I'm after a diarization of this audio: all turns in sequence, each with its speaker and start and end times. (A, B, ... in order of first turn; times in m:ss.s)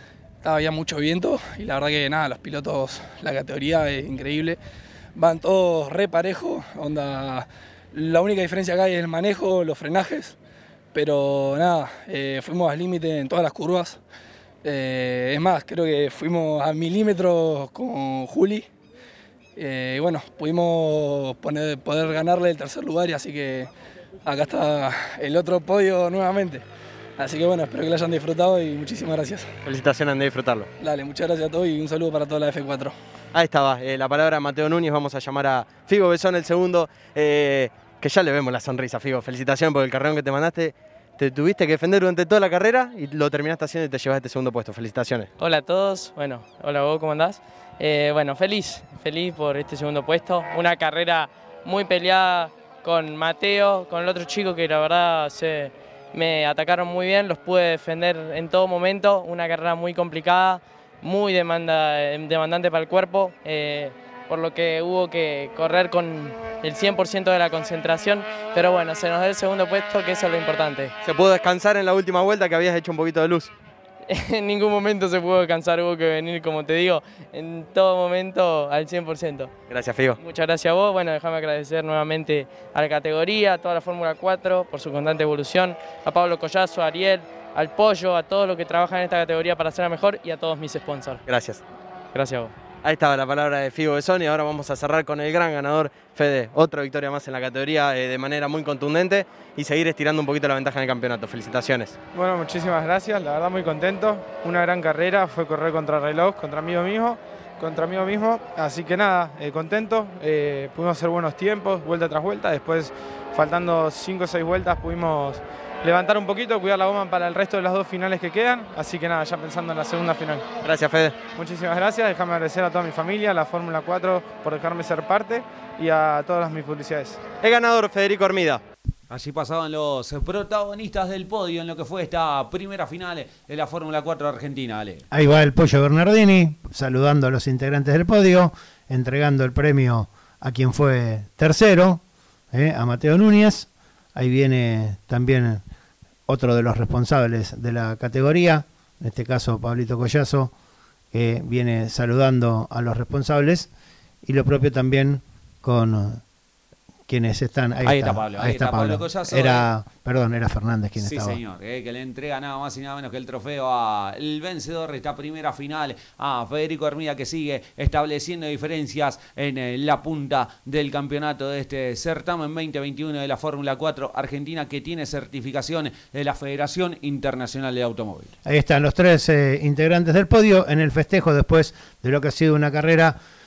0:00.4-0:04.6 A
0:05.2-0:10.4 A
0:10.9-0:14.0 A
0:14.6-0:18.7 A
0:19.6-0:23.7 A
0:24.2-0:26.6 A
0:27.2-0:29.5 A
0:29.6-0:30.7 B
0:30.8-0:32.9 A
0:33.3-0:45.3 B
0:45.4-1:10.9 C
1:11.0-1:13.5 B
1:14.1-1:19.5 C
1:19.7-1:20.2 B
1:20.2-1:31.2 C
1:31.3-1:31.6 B
1:32.1-1:32.5 C
1:32.8-1:42.0 B
1:42.1-2:00.4 D
2:00.6-2:01.2 B
2:01.4-2:07.2 D
2:07.4-2:08.6 B
2:09.1-2:15.0 E
2:15.1-2:25.6 F
2:26.3-2:30.5 F
2:31.1-2:33.7 F
2:34.2-2:36.2 F
2:37.1-2:41.4 F
2:37.8-2:39.7 E
2:41.0-2:58.3 E
2:58.4-3:03.2 F